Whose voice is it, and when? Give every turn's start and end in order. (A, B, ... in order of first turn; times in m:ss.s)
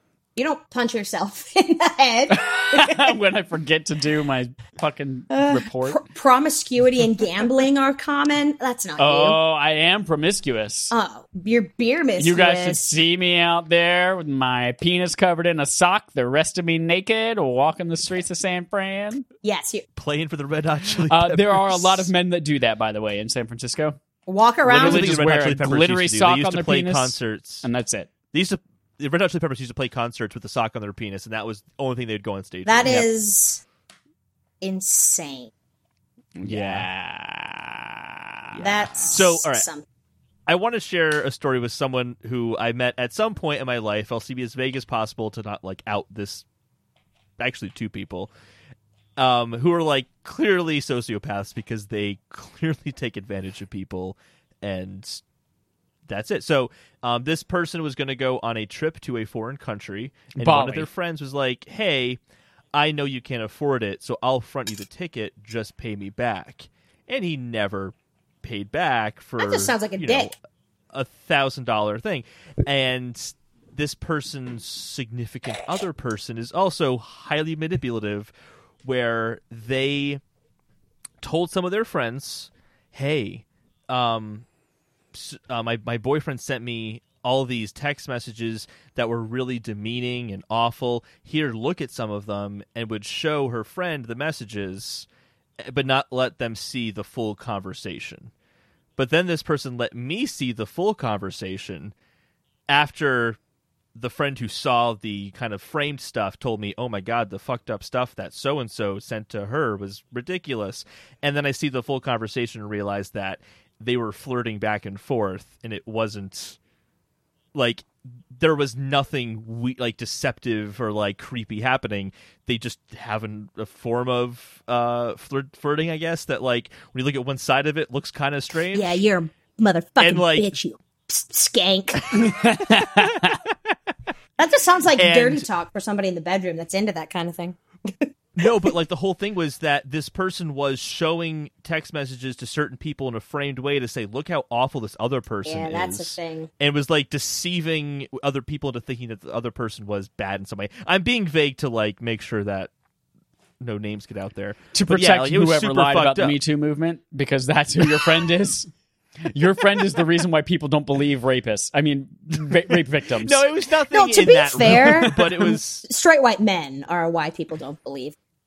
0:00.4-0:03.2 A
0:02.3-0:06.0 B
0:05.3-0:09.4 A
0:09.0-0:10.9 B
0:10.9-0:12.9 A
0:12.2-0:19.2 B
0:19.4-0:19.9 A
0:20.0-0:22.1 C
0:21.1-0:24.0 B
0:24.3-0:25.1 A
0:24.6-0:28.1 B
0:24.7-0:27.6 C
0:28.3-0:33.0 C
0:32.6-0:33.6 A
0:34.6-0:35.5 A
0:36.4-0:39.2 B
0:36.5-0:36.9 C
0:38.6-0:39.8 A
0:38.6-0:39.6 C
0:40.5-0:46.4 C
0:47.4-0:48.3 C
0:49.2-0:55.2 C
0:56.1-1:02.2 C
1:00.4-1:00.9 B
1:02.7-1:10.3 C
1:09.4-1:10.3 A
1:10.9-1:18.3 C
1:18.8-1:20.2 C
1:21.2-1:24.4 C
1:25.1-1:35.1 C
1:35.6-1:38.3 C
1:39.0-1:41.9 C
1:42.7-1:43.4 C
1:43.9-1:56.6 C
1:57.5-2:09.0 C
2:08.7-2:12.8 A
2:10.0-2:10.5 C
2:12.1-2:13.4 B
2:14.4-2:18.5 A
2:15.0-2:15.5 C
2:18.4-2:32.7 C
2:25.4-2:26.5 A
2:33.6-2:36.4 C
2:34.7-2:38.7 B
2:39.3-2:43.4 B
2:43.2-2:45.8 C
2:43.9-2:48.1 A
2:44.6-2:45.1 B